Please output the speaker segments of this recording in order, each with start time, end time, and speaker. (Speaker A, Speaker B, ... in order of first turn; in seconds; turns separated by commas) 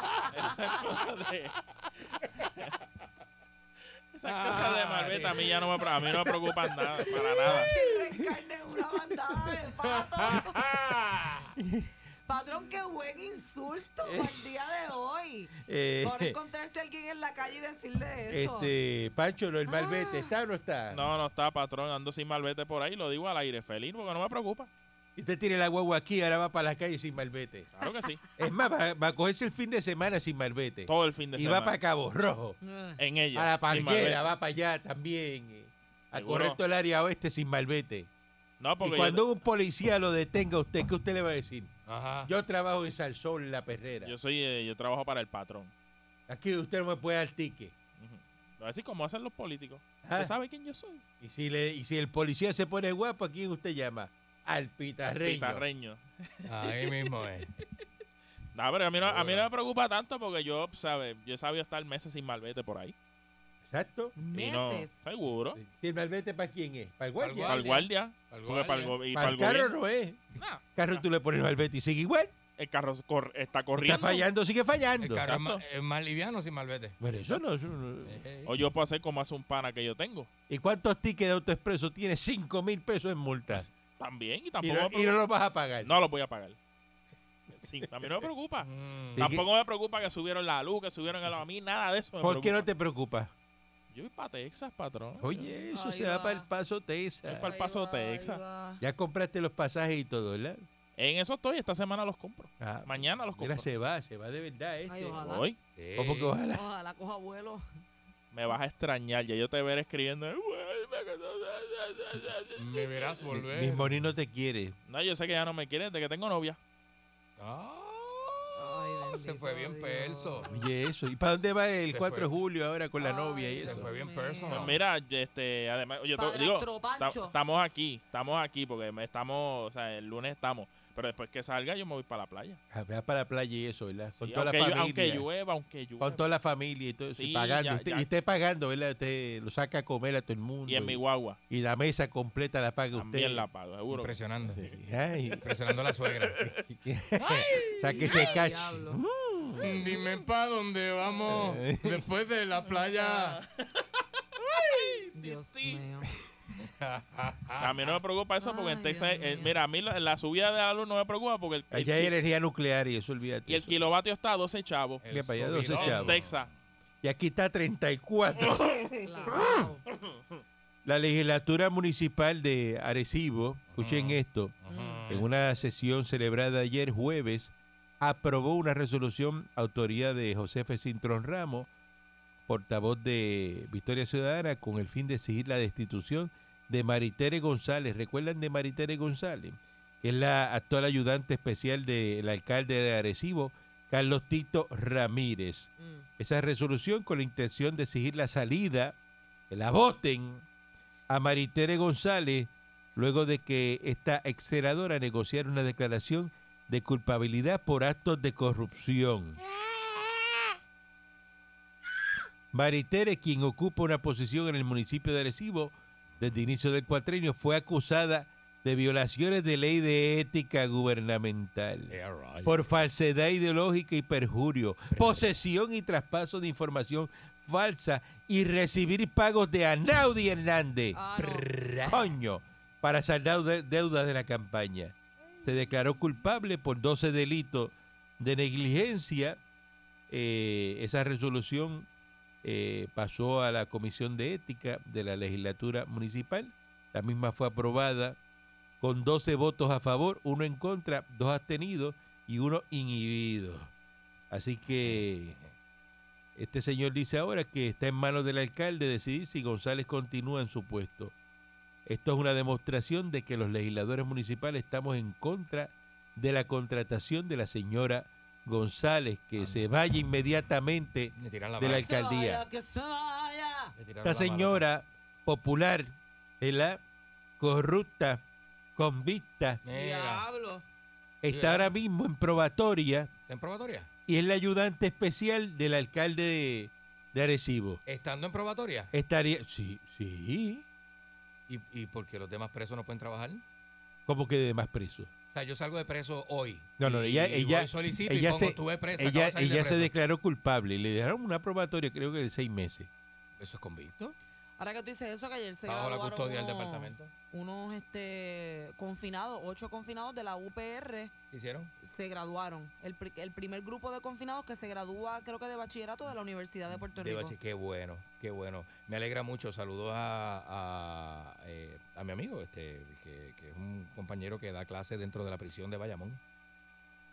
Speaker A: 0.3-1.5, Speaker A: 4.1-7.7, Speaker B: 4.2-7.1, Speaker C: 7.5-10.6, Speaker B: 10.2-11.5, Speaker C: 12.3-18.7, Speaker D: 14.0-14.4, Speaker D: 15.6-16.4, Speaker D: 18.3-21.1, Speaker C: 19.7-20.3, Speaker A: 20.9-24.7, Speaker D: 25.1-27.7, Speaker A: 27.8-28.2, Speaker D: 28.4-32.6, Speaker A: 30.9-31.7, Speaker C: 32.6-33.0, Speaker A: 33.0-34.2, Speaker D: 33.3-38.1, Speaker A: 36.1-36.6, Speaker A: 38.6-39.2, Speaker D: 38.8-41.7, Speaker B: 41.9-42.3, Speaker D: 42.2-44.1, Speaker A: 44.0-45.7, Speaker D: 46.3-47.8, Speaker A: 48.0-51.0, Speaker D: 50.0-50.3, Speaker D: 51.2-55.6, Speaker A: 55.0-56.5, Speaker B: 56.5-57.5, Speaker A: 58.5-63.0, Speaker B: 59.0-59.5, Speaker D: 63.6-64.1, Speaker C: 64.2-65.0, Speaker A: 64.3-65.6, Speaker D: 65.6-67.6, Speaker B: 67.2-69.0, Speaker A: 67.5-69.7, Speaker D: 69.1-72.3, Speaker A: 70.4-71.0, Speaker A: 72.6-74.2, Speaker D: 73.8-75.2, Speaker B: 75.0-77.3, Speaker A: 75.2-75.6, Speaker D: 77.0-78.2, Speaker B: 78.0-78.5, Speaker A: 78.5-80.3, Speaker D: 80.5-83.7, Speaker A: 84.0-85.2, Speaker D: 84.6-85.9, Speaker A: 85.8-86.6, Speaker A: 87.6-92.6, Speaker B: 88.6-89.3, Speaker D: 89.2-89.5, Speaker D: 92.2-93.3, Speaker A: 93.9-95.4, Speaker D: 95.2-97.5, Speaker C: 95.4-96.5, Speaker A: 97.3-98.4, Speaker C: 97.4-98.8, Speaker D: 98.8-100.6, Speaker A: 101.0-103.7, Speaker D: 102.6-105.2, Speaker C: 104.9-105.5, Speaker A: 105.2-105.6, Speaker B: 105.8-106.4, Speaker D: 106.0-106.6, Speaker C: 106.5-107.6, Speaker A: 108.3-112.9, Speaker B: 112.5-114.0, Speaker D: 113.3-114.8, Speaker A: 114.9-116.6, Speaker B: 117.4-120.5, Speaker C: 118.5-120.5, Speaker D: 120.5-123.9, Speaker B: 121.9-122.3, Speaker C: 123.0-124.8, Speaker B: 123.6-124.8, Speaker A: 124.5-132.6, Speaker C: 126.2-127.4, Speaker D: 132.7-135.3, Speaker A: 134.2-136.2, Speaker D: 136.0-143.5, Speaker A: 137.1-138.1, Speaker A: 140.7-141.4, Speaker A: 142.9-144.2, Speaker B: 143.9-144.6, Speaker D: 144.5-145.4, Speaker B: 145.4-146.5, Speaker D: 146.4-149.9, Speaker B: 147.3-147.9, Speaker C: 147.9-149.0, Speaker B: 149.6-153.4, Speaker D: 151.3-152.1, Speaker B: 154.6-155.0, Speaker C: 155.1-156.1, Speaker A: 155.2-155.8, Speaker B: 156.6-158.0, Speaker A: 157.6-162.1, Speaker C: 158.4-159.5, Speaker D: 161.7-163.9, Speaker A: 163.5-165.1, Speaker B: 165.0-166.5, Speaker D: 165.1-166.2, Speaker A: 165.7-166.5, Speaker D: 167.0-169.4, Speaker C: 169.0-169.8, Speaker D: 170.8-174.5, Speaker B: 173.7-175.3, Speaker C: 174.7-175.0, Speaker D: 175.1-181.7, Speaker D: 182.5-199.0, Speaker C: 195.8-196.1, Speaker D: 199.5-200.5, Speaker D: 201.1-209.4, Speaker D: 212.5-239.4, Speaker B: 221.9-222.6, Speaker B: 224.9-225.3, Speaker C: 230.9-231.5, Speaker D: 240.1-241.9, Speaker D: 242.4-248.2, Speaker D: 248.8-253.7, Speaker D: 254.3-255.4, Speaker B: 254.8-255.5, Speaker D: 256.4-261.1, Speaker D: 261.9-272.4, Speaker B: 269.4-269.7, Speaker B: 271.1-271.9, Speaker C: 271.6-273.7, Speaker B: 273.8-274.6, Speaker D: 274.0-276.8, Speaker D: 277.4-278.2, Speaker D: 278.8-279.6, Speaker B: 279.6-280.2, Speaker C: 279.7-280.6, Speaker D: 281.2-283.1, Speaker B: 281.3-281.7, Speaker B: 283.3-283.9, Speaker D: 284.1-287.8, Speaker B: 287.9-288.9, Speaker D: 288.9-290.6, Speaker B: 291.5-293.4, Speaker D: 294.1-295.1, Speaker B: 295.3-299.9, Speaker D: 296.8-302.9, Speaker B: 303.4-304.1, Speaker C: 304.6-311.1, Speaker B: 305.7-307.1, Speaker B: 311.3-311.7, Speaker C: 311.8-317.4, Speaker B: 316.8-326.2